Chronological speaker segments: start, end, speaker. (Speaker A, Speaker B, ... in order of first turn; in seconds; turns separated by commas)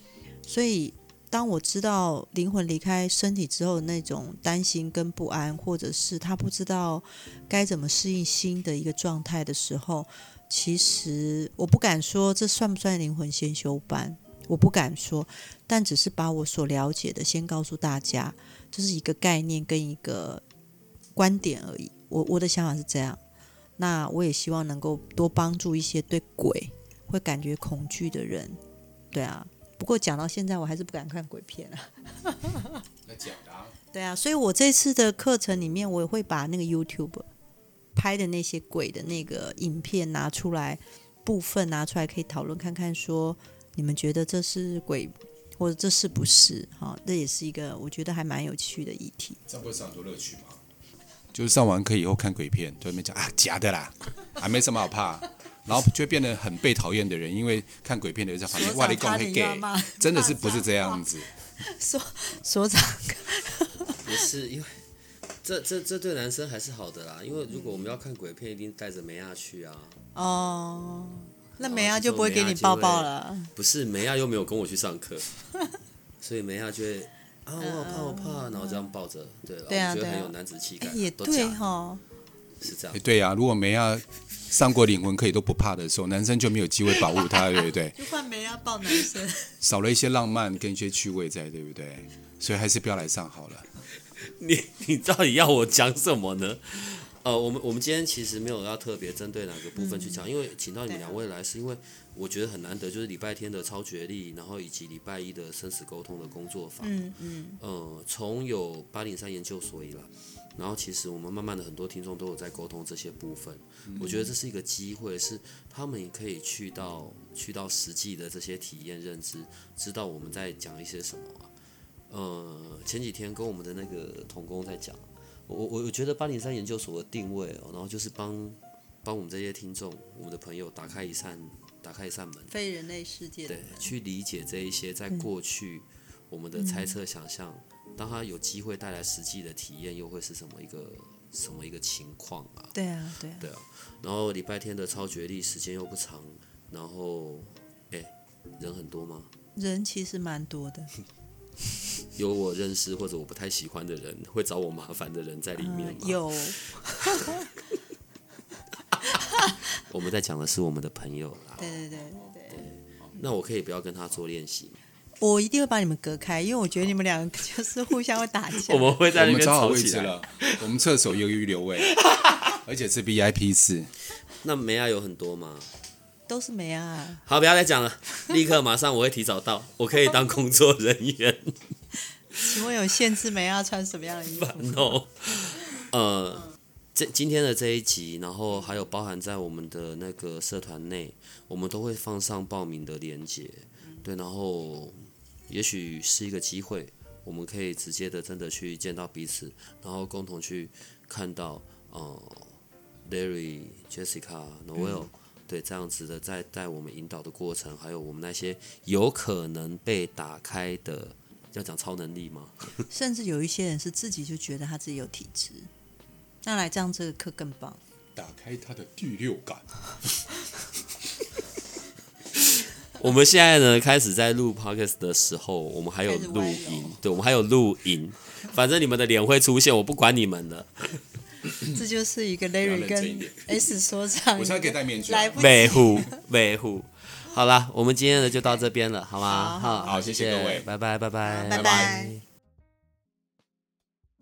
Speaker A: 0.5-20.4, Speaker A: 21.1-23.2, Speaker A: 23.8-28.6, Speaker A: 29.1-32.8, Speaker B: 33.0-33.8, Speaker A: 33.9-37.3, Speaker A: 38.0-49.4, Speaker B: 49.5-50.6, Speaker B: 51.3-61.5, Speaker A: 58.5-61.0, Speaker A: 61.6-64.2, Speaker C: 64.0-64.8, Speaker C: 65.4-70.0, Speaker A: 70.2-73.5, Speaker C: 71.6-75.3, Speaker C: 76.2-81.6, Speaker A: 77.6-78.9, Speaker A: 79.7-82.0, Speaker C: 82.6-83.0, Speaker B: 82.9-88.0, Speaker A: 87.9-89.5, Speaker B: 89.6-93.7, Speaker C: 94.2-121.5, Speaker A: 99.8-100.2, Speaker A: 100.9-101.2, Speaker A: 106.8-107.6, Speaker A: 114.0-114.3, Speaker C: 122.1-132.5, Speaker A: 132.5-133.9, Speaker C: 133.5-142.7, Speaker A: 136.6-137.0, Speaker A: 142.7-143.5, Speaker C: 143.4-149.3, Speaker A: 149.6-150.9, Speaker C: 152.1-156.7, Speaker A: 155.6-157.5, Speaker A: 159.2-159.6, Speaker C: 159.8-161.7, Speaker A: 161.6-162.6, Speaker C: 162.5-164.8, Speaker A: 165.2-168.9, Speaker C: 168.7-170.5, Speaker B: 169.1-173.9, Speaker C: 174.4-175.7, Speaker A: 176.3-177.2, Speaker C: 177.2-181.6, Speaker A: 182.3-184.9, Speaker C: 184.4-212.8, Speaker A: 204.8-205.1, Speaker A: 212.9-215.7, Speaker A: 216.4-217.8, Speaker B: 218.2-220.2, Speaker C: 223.0-231.1, Speaker A: 226.1-227.0, Speaker A: 231.6-236.2, Speaker B: 232.6-233.7, Speaker B: 234.3-235.8, Speaker C: 235.4-242.2, Speaker A: 239.3-239.9, Speaker B: 239.8-240.7, Speaker A: 241.3-242.2, Speaker B: 241.5-241.9